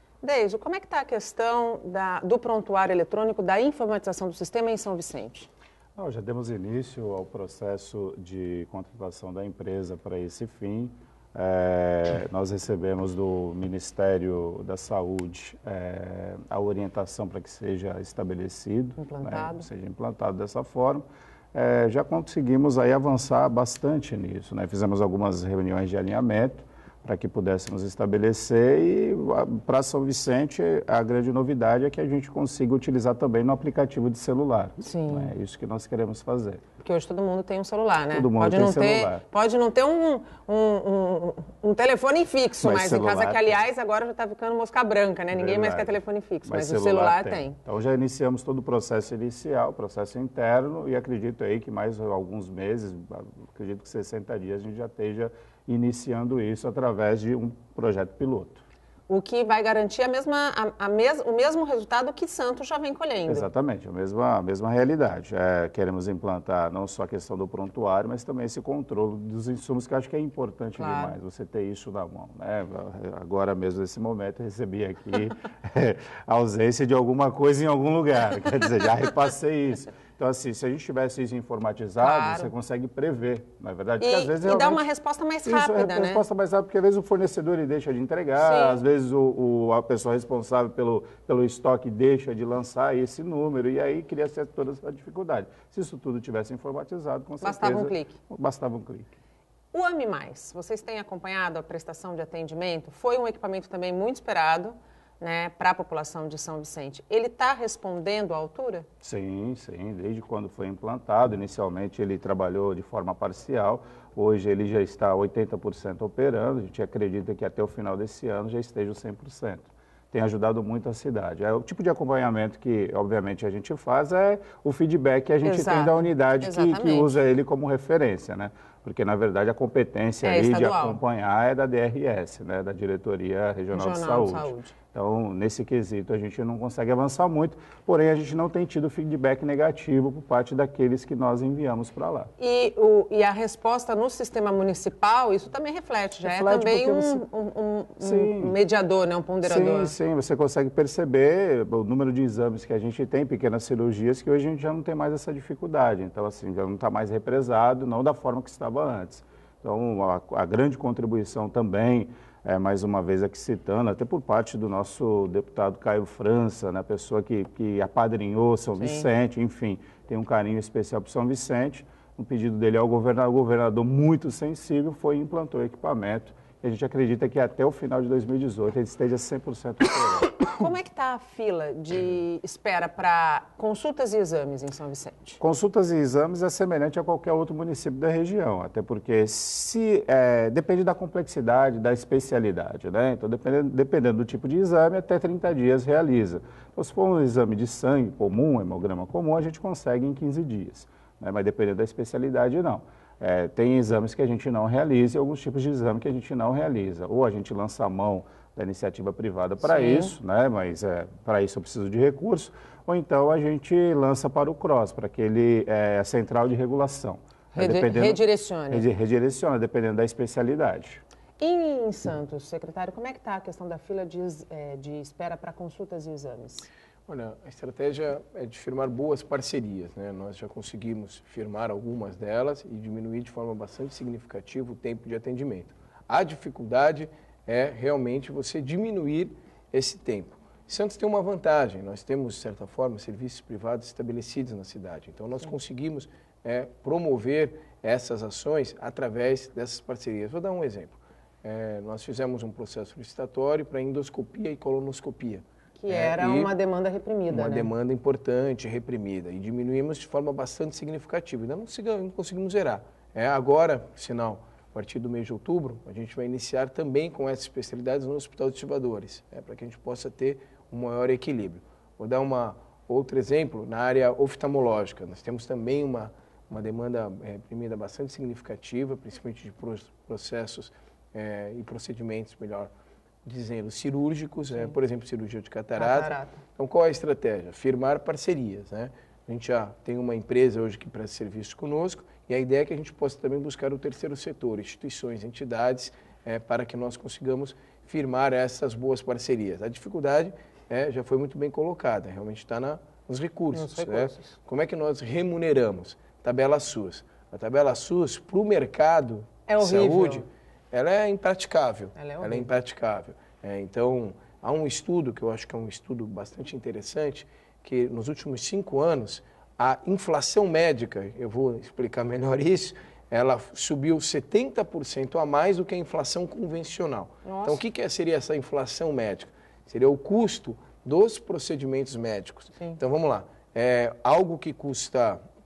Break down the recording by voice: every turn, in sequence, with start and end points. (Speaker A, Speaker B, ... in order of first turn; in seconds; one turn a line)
Speaker A: 0.2-5.5
Speaker B: 6.0-36.6
Speaker A: 19.0-19.7
Speaker A: 34.8-35.3
Speaker A: 36.8-47.6
Speaker B: 38.1-39.2
Speaker B: 42.6-43.6
Speaker B: 45.3-58.6
Speaker A: 59.1-63.5
Speaker B: 63.3-84.8
Speaker A: 70.8-71.2
Speaker A: 82.0-82.5
Speaker A: 84.0-86.2
Speaker B: 85.4-99.1
Speaker A: 88.4-88.8
Speaker A: 97.4-98.2
Speaker A: 99.7-108.9
Speaker B: 109.0-142.3
Speaker A: 125.4-127.1
Speaker A: 130.2-131.0
Speaker A: 133.7-134.7
Speaker A: 142.4-149.9
Speaker B: 146.2-147.2
Speaker B: 148.0-148.5
Speaker B: 149.4-180.5
Speaker A: 168.8-169.1
Speaker A: 180.5-185.4
Speaker B: 185.4-221.0
Speaker A: 209.6-210.2
Speaker A: 217.5-218.8
Speaker A: 221.4-226.7
Speaker C: 227.1-256.5
Speaker A: 255.8-257.7
Speaker C: 257.3-282.7
Speaker C: 283.2-335.2
Speaker A: 285.8-286.4
Speaker A: 303.5-304.3
Speaker A: 309.5-310.2
Speaker A: 311.9-312.5
Speaker A: 327.2-327.6